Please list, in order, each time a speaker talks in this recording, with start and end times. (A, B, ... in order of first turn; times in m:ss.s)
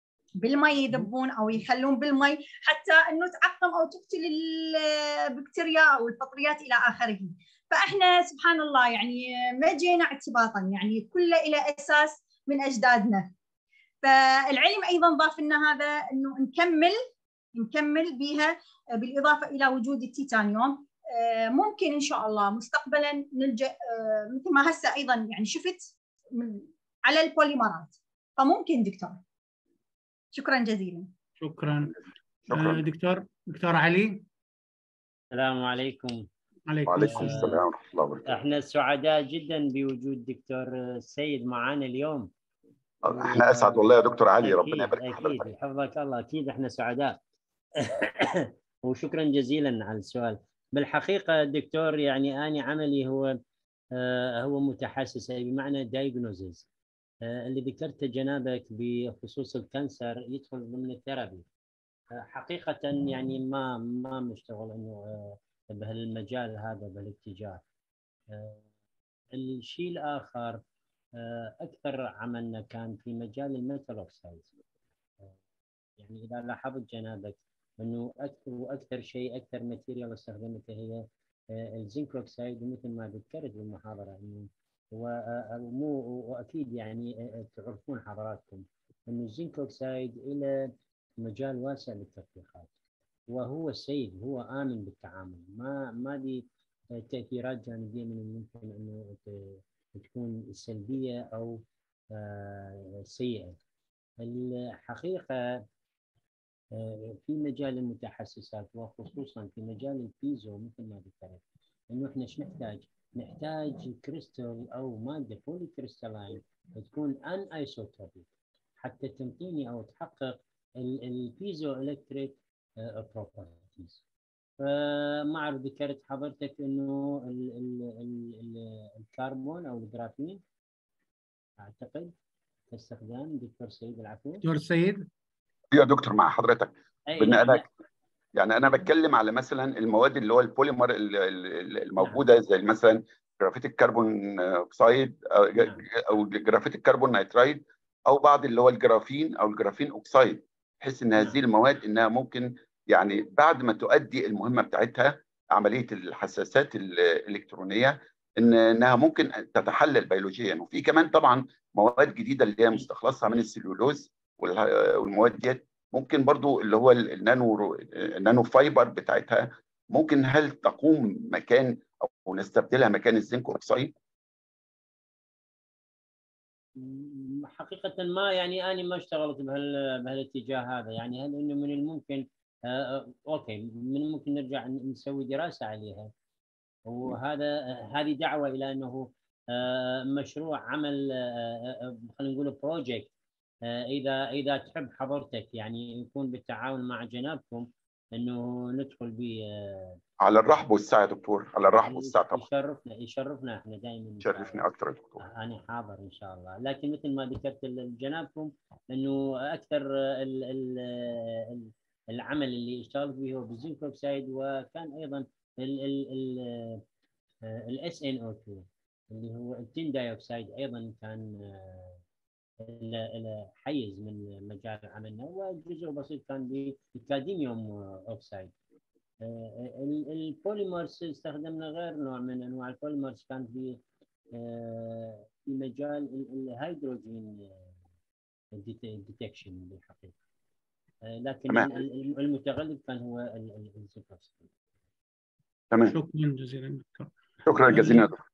0:00.4-0:13.3 A
0:14.0-0:17.0 A
0:17.5-0:29.2 A
0:30.3-0:31.1 A
0:31.4-0:31.9 B
0:32.5-0:32.8 C
0:32.5-0:34.2 B
0:35.3-0:36.2 D
0:36.7-0:37.5 B
0:36.9-0:38.3 C
0:37.0-0:37.6 D
0:38.3-0:42.3 D
0:43.0-0:45.5 C
0:43.1-0:47.2 D
0:47.8-0:53.4 D
0:53.9-0:56.7 D
0:57.2-1:01.4 D
1:02.2-1:07.6 D
1:08.3-1:08.6 D
1:09.3-1:10.6 D
1:11.2-1:14.5 D
1:16.0-1:32.7 D
1:33.3-1:43.6 D
1:44.2-1:45.6 D
1:46.7-1:58.2 D
1:58.8-2:04.0 D
2:04.6-2:10.4 D
2:11.6-2:12.1 D
2:12.7-2:14.4 D
2:14.4-2:15.1 B
2:15.7-2:17.6 C
2:17.1-2:17.6 D
2:18.3-2:53.9 C
2:22.0-2:22.2 D
2:25.6-2:25.8 D
2:56.8-3:06.1 D
3:06.8-3:13.1 D
3:13.6-3:20.0 D
3:20.2-3:22.4 C
3:21.8-3:24.6 D
3:24.2-3:25.2 C
3:25.2-3:36.8 D
3:37.5-3:42.0 D
3:42.6-3:48.5 D
3:49.2-3:53.8 D
3:54.3-3:57.7 D
3:58.5-4:00.1 D
4:01.0-4:04.5 D
4:01.5-4:01.8 C
4:05.7-4:06.0 C
4:05.9-4:07.1 B
4:07.5-4:08.2 C
4:07.7-4:08.1 B